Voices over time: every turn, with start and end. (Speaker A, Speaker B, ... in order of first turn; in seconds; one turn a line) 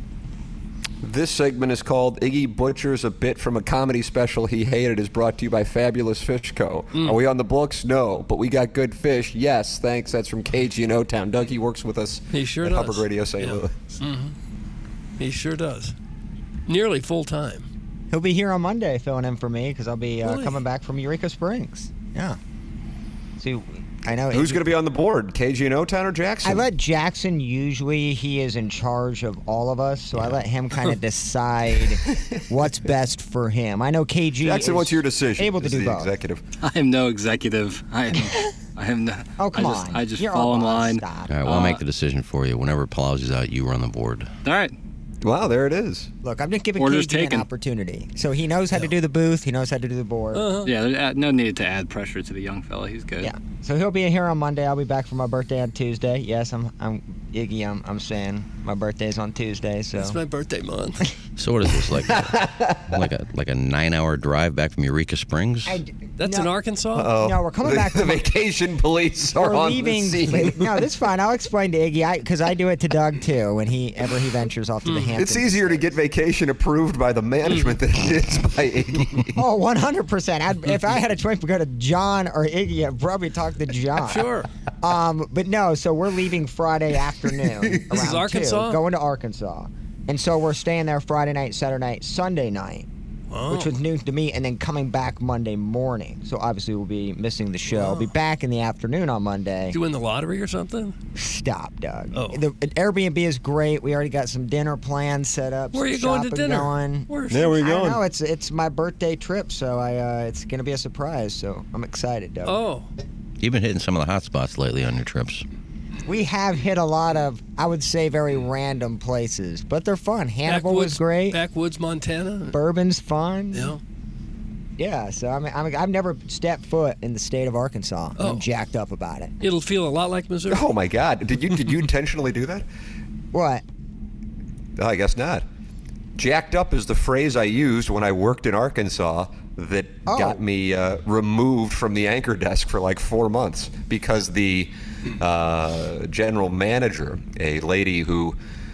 Speaker A: 1.0-13.7
Speaker B: 12.3-14.3
Speaker B: 15.2-15.9
Speaker B: 16.7-17.7
Speaker C: 18.1-22.4
Speaker B: 20.2-20.6
Speaker C: 23.4-24.7
Speaker A: 24.3-26.7
Speaker C: 26.4-36.1
Speaker A: 34.4-36.4
Speaker D: 36.6-41.8
Speaker C: 39.4-41.7
Speaker E: 41.3-44.3
Speaker D: 44.4-44.7
Speaker A: 45.2-46.1
Speaker C: 46.2-50.5
Speaker D: 46.8-47.5
Speaker B: 50.3-50.7
Speaker D: 50.6-53.3
Speaker C: 53.2-60.2
Speaker B: 60.0-61.1
Speaker E: 61.4-65.8
Speaker A: 62.1-62.9
Speaker C: 65.7-66.5
Speaker B: 66.2-67.1
Speaker A: 66.9-70.7
Speaker C: 67.2-68.2
Speaker C: 69.3-75.9
Speaker B: 74.8-75.1
Speaker A: 75.2-79.3
Speaker B: 77.5-77.7
Speaker C: 79.3-92.9
Speaker B: 84.0-84.5
Speaker B: 87.9-88.8
Speaker B: 93.3-93.7
Speaker C: 93.5-99.8
Speaker B: 97.7-98.1
Speaker B: 99.7-101.0
Speaker C: 101.1-112.6
Speaker B: 102.1-102.4
Speaker B: 105.7-107.6
Speaker A: 107.3-108.0
Speaker B: 112.4-112.9
Speaker E: 113.4-115.4
Speaker C: 116.0-121.4
Speaker B: 120.5-122.6
Speaker C: 122.5-123.8
Speaker B: 123.5-123.8
Speaker C: 124.8-129.3
Speaker B: 128.2-128.4
Speaker B: 129.4-130.7
Speaker A: 130.5-132.6
Speaker C: 133.3-133.6
Speaker A: 134.8-135.4
Speaker A: 136.2-148.3
Speaker C: 140.1-140.4